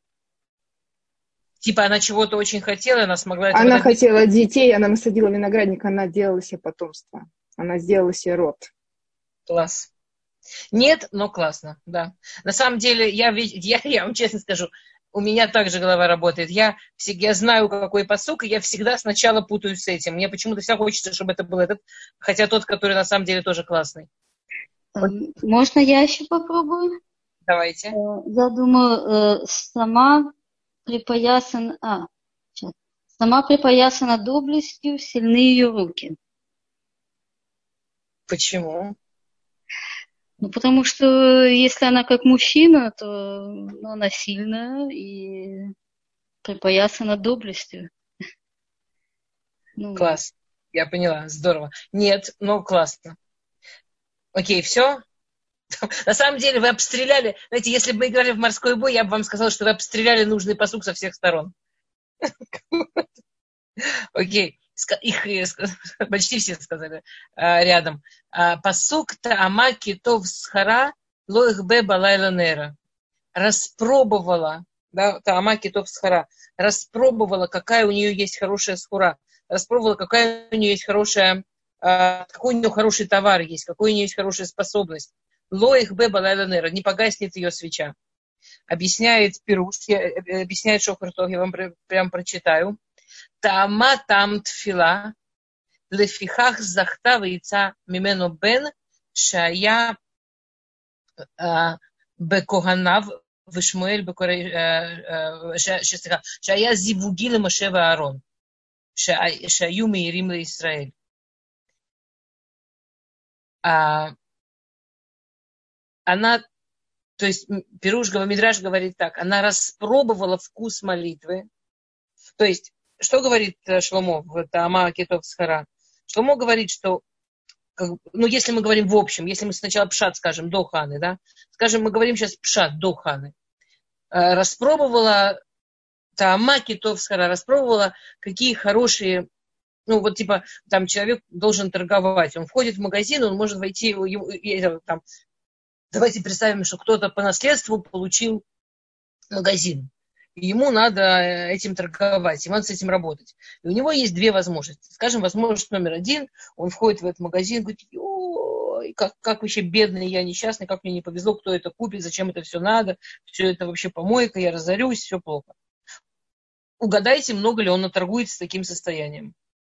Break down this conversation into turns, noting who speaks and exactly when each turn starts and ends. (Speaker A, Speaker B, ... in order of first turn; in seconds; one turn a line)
Speaker A: 1.6-4.0
Speaker B: 3.5-8.7
Speaker A: 9.5-9.9
Speaker A: 10.7-24.1
Speaker C: 24.9-26.9
Speaker A: 27.5-27.9
Speaker C: 27.9-30.3
Speaker C: 30.9-36.1
Speaker A: 38.3-38.9
Speaker C: 40.4-45.7
Speaker C: 46.4-47.9
Speaker C: 49.8-50.2
Speaker A: 50.0-53.1
Speaker A: 54.3-55.0
Speaker A: 56.0-61.5
Speaker A: 62.7-63.0
Speaker A: 63.9-72.7
Speaker A: 73.3-87.9
Speaker A: 88.7-92.8
Speaker A: 93.4-95.1
Speaker A: 95.9-100.0
Speaker A: 101.4-108.2
Speaker A: 109.0-110.9
Speaker A: 113.6-114.1
Speaker A: 116.1-116.4
Speaker A: 117.2-121.5
Speaker A: 122.4-127.0
Speaker A: 127.8-133.3
Speaker A: 134.1-135.4
Speaker A: 136.2-139.2
Speaker A: 139.9-145.0
Speaker A: 145.9-148.4
Speaker A: 149.3-165.5
Speaker A: 166.8-169.3